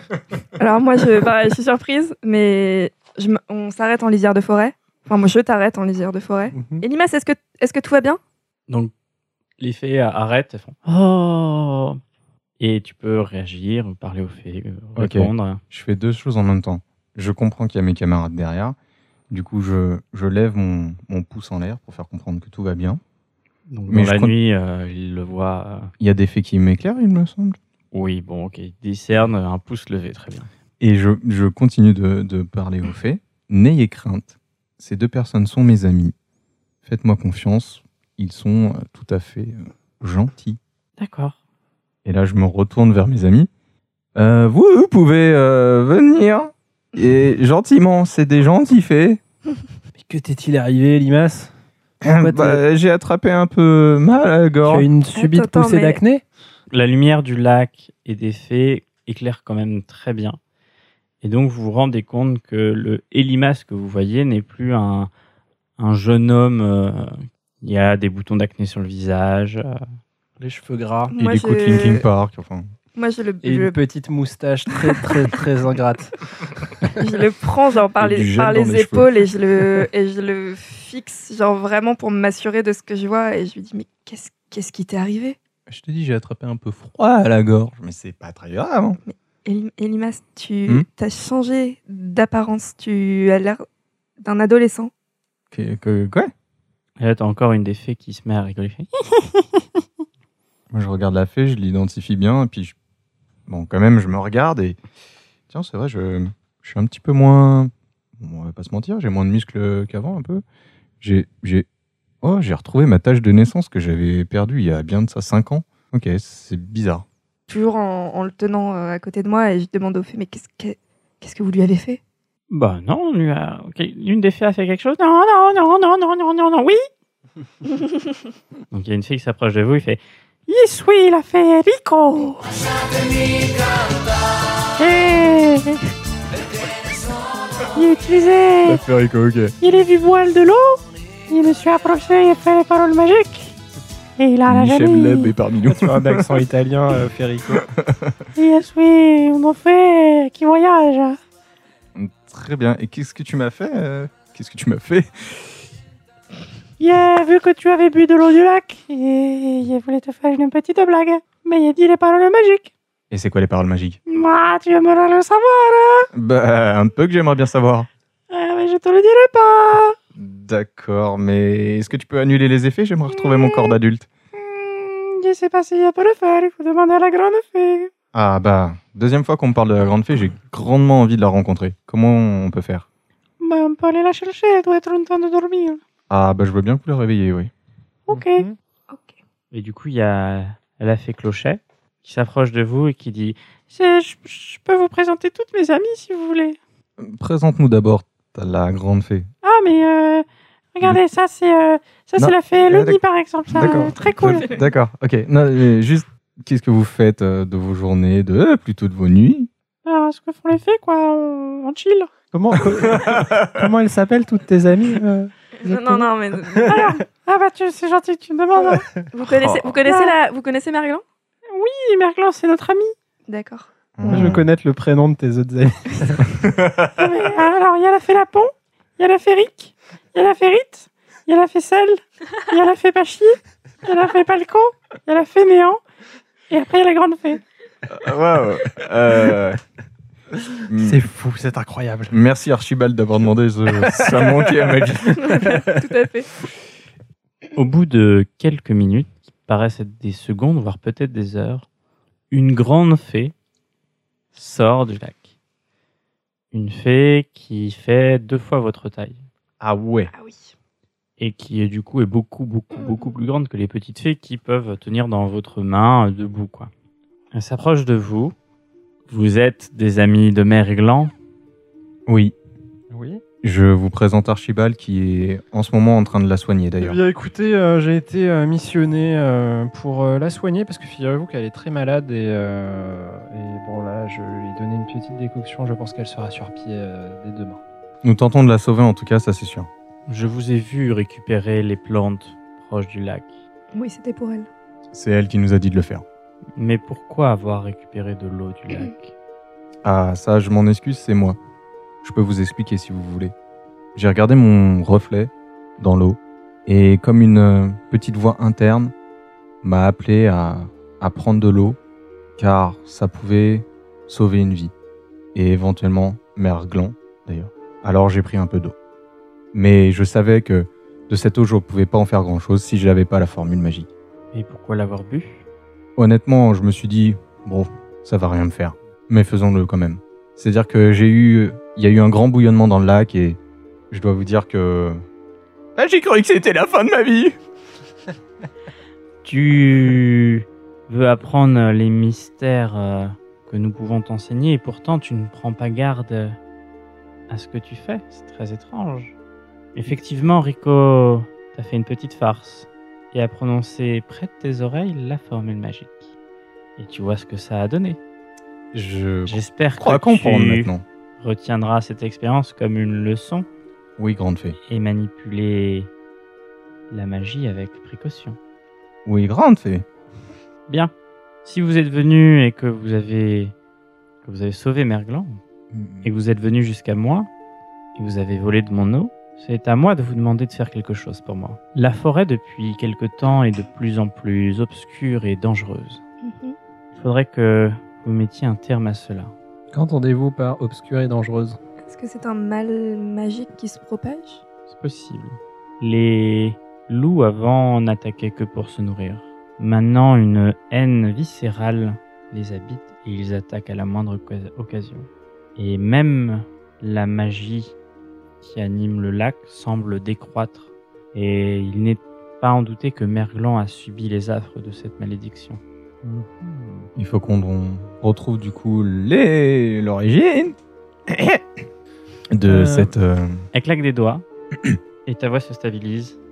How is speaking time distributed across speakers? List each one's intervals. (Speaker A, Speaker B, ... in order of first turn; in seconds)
Speaker A: 0.6-8.2, 55.1-56.0, 71.1-72.0, 73.0-73.8, 77.0-85.4, 89.0-93.6, 94.2-94.9, 117.5-122.0, 215.6-217.0, 219.1-221.0, 223.3-224.3, 245.2-246.3, 260.1-260.5, 293.7-294.5, 386.2-386.6, 391.9-394.4
Speaker B: 6.5-6.8, 50.0-51.5, 52.2-52.6, 54.7-56.2, 70.4-71.1, 73.4-76.9, 145.7-147.7, 188.1-188.6, 203.5-204.0, 212.3-216.9, 224.1-226.3, 240.4-242.2, 243.7-245.9, 272.9-273.2, 276.8-287.6, 389.7-391.6, 416.0-416.8, 422.5-422.9
Speaker C: 9.6-12.0, 12.6-15.6, 23.7-25.9, 27.9-30.5, 41.0-41.4, 56.7-60.4, 61.2-65.1, 65.8-69.8, 97.0-98.9, 122.5-126.8, 128.7-132.3, 134.8-135.7, 137.8-138.8, 139.6-140.7, 141.3-143.5, 144.2-145.3, 148.4-151.1, 156.8-162.7, 164.1-166.1, 168.3-169.9, 174.4-177.9, 183.4-185.8, 188.1-188.5, 189.5-196.6, 199.4-200.2, 200.8-204.4, 209.9-212.1, 216.7-218.8, 221.5-222.9, 227.0-228.4, 229.0-231.9, 232.5-233.2, 233.9-235.6, 236.5-237.3, 247.6-251.7, 252.3-253.3, 254.3-255.3, 256.5-259.2, 261.2-266.7, 267.3-268.4, 269.1-271.1, 290.1-293.3, 296.6-299.1, 324.3-325.4, 339.2-346.4, 347.3-349.1, 349.8-356.1, 356.8-358.0, 359.3-363.5, 364.7-365.9, 366.9-368.4, 371.4-373.5, 374.2-375.4, 376.0-377.3, 378.0-386.0, 386.9-389.3, 394.7-407.8, 408.4-415.6, 423.5-424.2, 425.1-426.2
Speaker D: 15.0-18.8, 19.3-23.0, 23.9-24.3, 26.0-27.6, 30.8-36.1, 36.8-40.6, 42.0-43.5, 44.1-49.2, 52.0-54.9, 71.2-72.7, 78.0-79.3, 85.7-89.0, 95.5-96.3, 100.7-102.8, 103.5-104.8, 105.5-110.4, 111.0-111.7, 112.2-117.0, 138.6-139.6, 144.5-146.4, 147.6-148.2, 151.9-155.7, 163.1-164.0, 166.1-167.9, 170.2-174.1, 178.1-182.9, 186.1-187.5, 197.0-199.3, 202.2-203.0, 203.5-209.5, 212.8-213.6, 219.2-219.9, 224.0-224.5, 226.3-227.1, 237.9-239.6, 240.7-241.0, 242.1-245.2, 259.6-260.1, 272.1-272.4, 273.4-277.0, 288.0-289.7, 294.9-296.0, 299.8-301.4, 302.0-303.3, 303.9-308.9, 309.6-311.8, 312.4-314.7, 315.3-318.8, 319.5-323.9, 326.0-333.4, 333.9-335.0, 335.8-337.4, 358.7-360.8, 364.0-364.6, 369.1-369.9, 375.7-376.1, 416.9-420.6, 421.1-421.4, 422.3-423.5